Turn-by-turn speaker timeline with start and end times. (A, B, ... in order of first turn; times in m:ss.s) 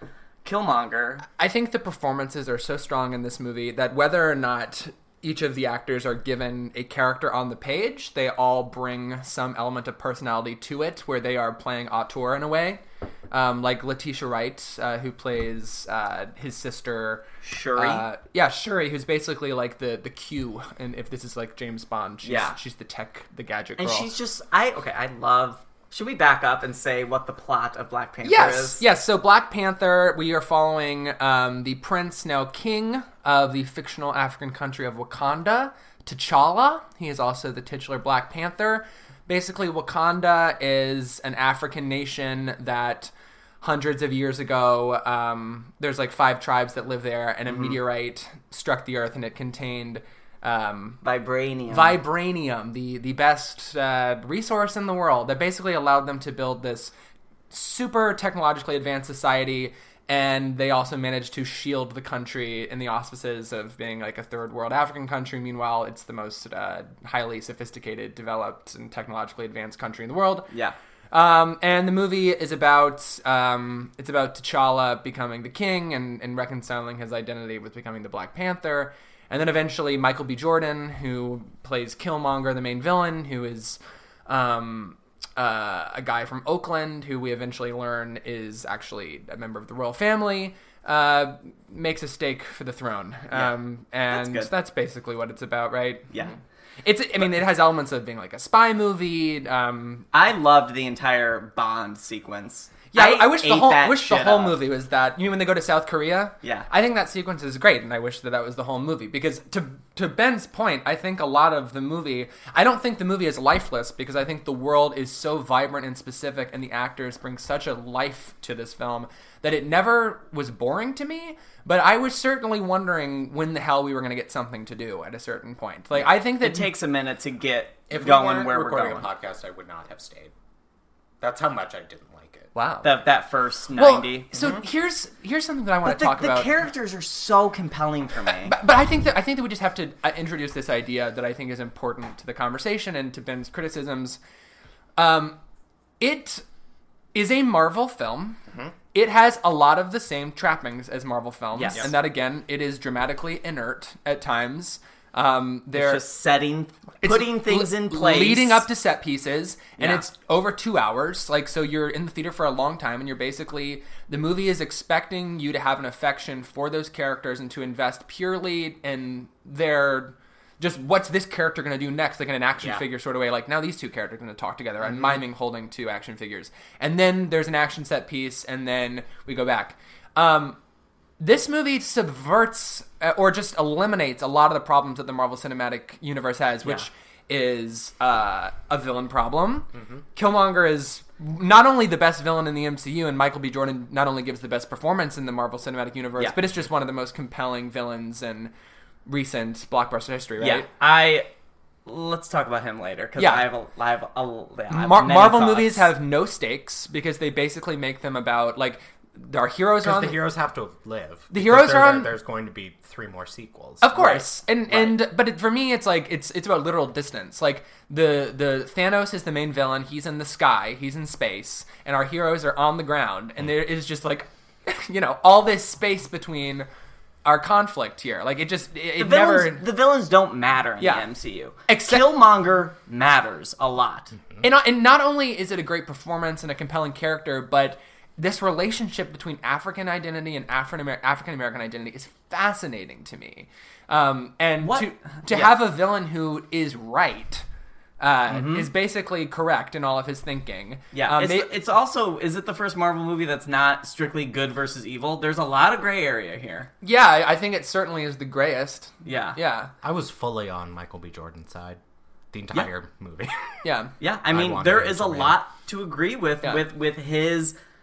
0:00.4-0:01.3 A
0:01.4-0:24.1 B
0:17.4-0:18.0 A
0:22.2-0:22.6 A
0:23.8-0:28.8 A
0:28.2-0:51.0 B
0:51.0-0:52.0 A
0:51.7-0:56.9 B
0:57.5-1:10.5 B
1:10.5-1:10.8 A
1:11.1-1:36.3 B
1:34.1-1:34.5 A
1:36.8-1:40.1 B
1:40.1-1:44.6 A
1:42.9-2:06.7 B
2:05.9-2:09.1 A
2:07.9-2:10.3 C
2:11.2-2:12.5 C
2:12.6-2:12.9 B
2:12.8-2:14.6 A
2:13.8-2:16.5 B
2:15.8-2:18.6 A
2:18.4-2:24.2 B
2:25.0-2:25.4 B
2:26.0-2:26.4 B
2:27.1-2:28.4 B
2:28.9-2:36.0 B
2:31.6-2:31.9 A
2:35.7-2:38.6 A
2:37.0-3:00.6 B
2:39.8-2:40.0 A
3:01.2-3:18.5 B
3:09.7-3:10.0 C
3:19.1-3:20.7 B
3:20.4-3:21.3 A
3:21.9-3:25.9 A
3:23.2-3:23.4 B
3:24.7-3:30.2 B
3:29.8-3:34.2 C
3:31.3-3:32.1 B
3:33.8-3:46.7 B
3:34.0-3:34.2 A
3:47.2-3:49.6 B
3:49.0-3:54.2 A
3:50.8-3:51.1 B
3:51.7-3:52.1 B
3:54.4-4:07.4 B
4:04.6-4:05.6 A
4:08.0-4:11.6 B
4:08.3-4:08.7 A
4:10.9-4:16.7 A
4:16.8-4:19.7 B
4:19.0-4:19.4 A
4:19.8-4:21.8 C
4:22.3-4:23.5 C
4:23.6-4:23.9 B
4:24.0-4:27.5 A
4:24.3-4:25.4 C